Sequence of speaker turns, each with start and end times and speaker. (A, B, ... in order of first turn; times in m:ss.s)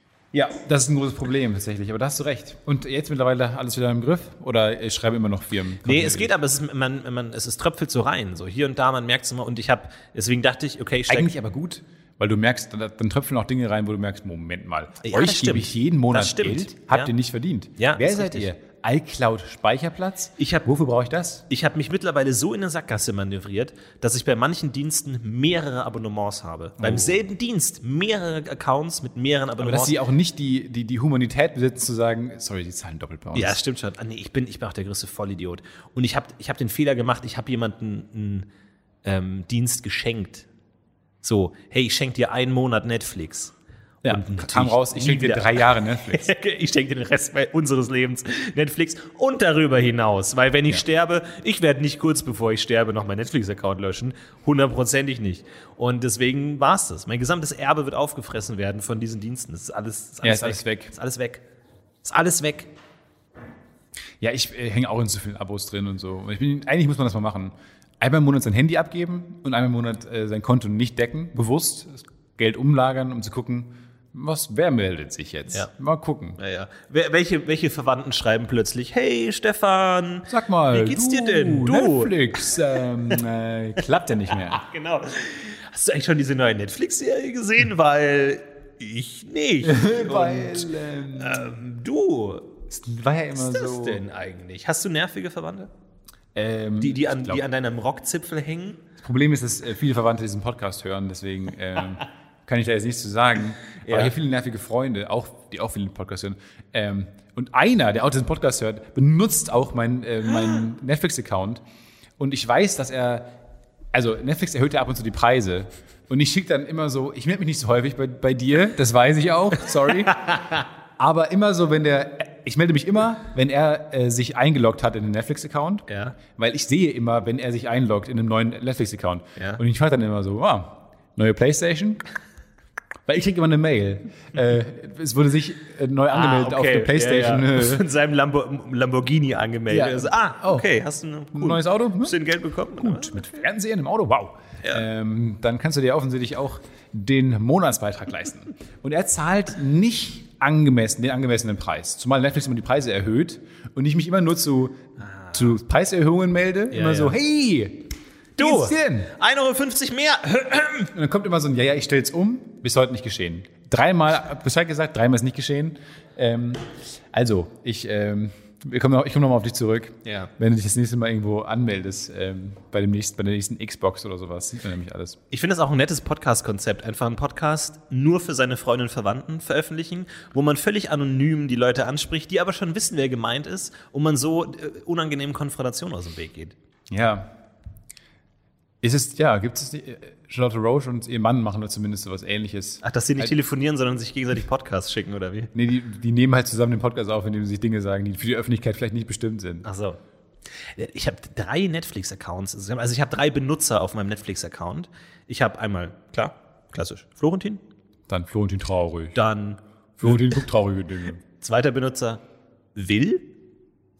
0:00.3-0:06.3 A
0:05.8-0:11.3 B
0:11.1-0:21.4 A
0:15.0-0:17.1 B
0:17.8-0:18.5 B
0:20.4-0:20.7 B
0:21.5-0:30.0 B
0:26.8-0:27.2 A
0:29.6-0:33.6 A
0:33.3-0:38.5 B
0:39.0-0:40.5 B
0:41.2-0:43.5 B
0:44.0-0:46.3 A
0:44.0-1:01.4 B
1:00.2-1:00.9 A
1:02.0-1:02.7 B
1:04.2-1:16.4 A
1:16.4-1:22.6 B
1:20.3-1:24.6 A
1:24.5-1:32.6 B
1:29.6-1:31.5 A
1:32.7-1:34.0 A
1:33.3-1:35.7 B
1:36.3-1:37.4 A
1:36.8-1:38.8 B
1:39.0-1:51.6 A
1:43.8-1:44.1 B
1:52.2-1:53.3 A
1:53.9-2:12.0 A
2:00.1-2:00.6 B
2:05.9-2:06.2 B
2:13.0-2:17.8 A
2:16.1-2:23.4 B
2:19.7-2:20.7 A
2:21.3-2:22.2 A
2:22.8-2:34.8 A
2:35.0-2:35.5 B
2:35.3-2:39.1 A
2:36.7-2:37.2 B
2:38.4-2:40.9 B
2:40.9-2:55.2 A
2:50.0-2:50.3 B
2:55.3-3:06.5 B
3:06.9-3:07.3 A
3:08.8-3:13.3 A
3:12.8-3:15.5 B
3:15.5-3:19.6 A
3:19.6-3:20.0 B
3:20.7-3:27.6 B
3:28.1-3:29.2 A
3:29.1-3:30.4 B
3:30.0-3:31.2 A
3:31.4-3:32.2 B
3:32.7-3:33.3 B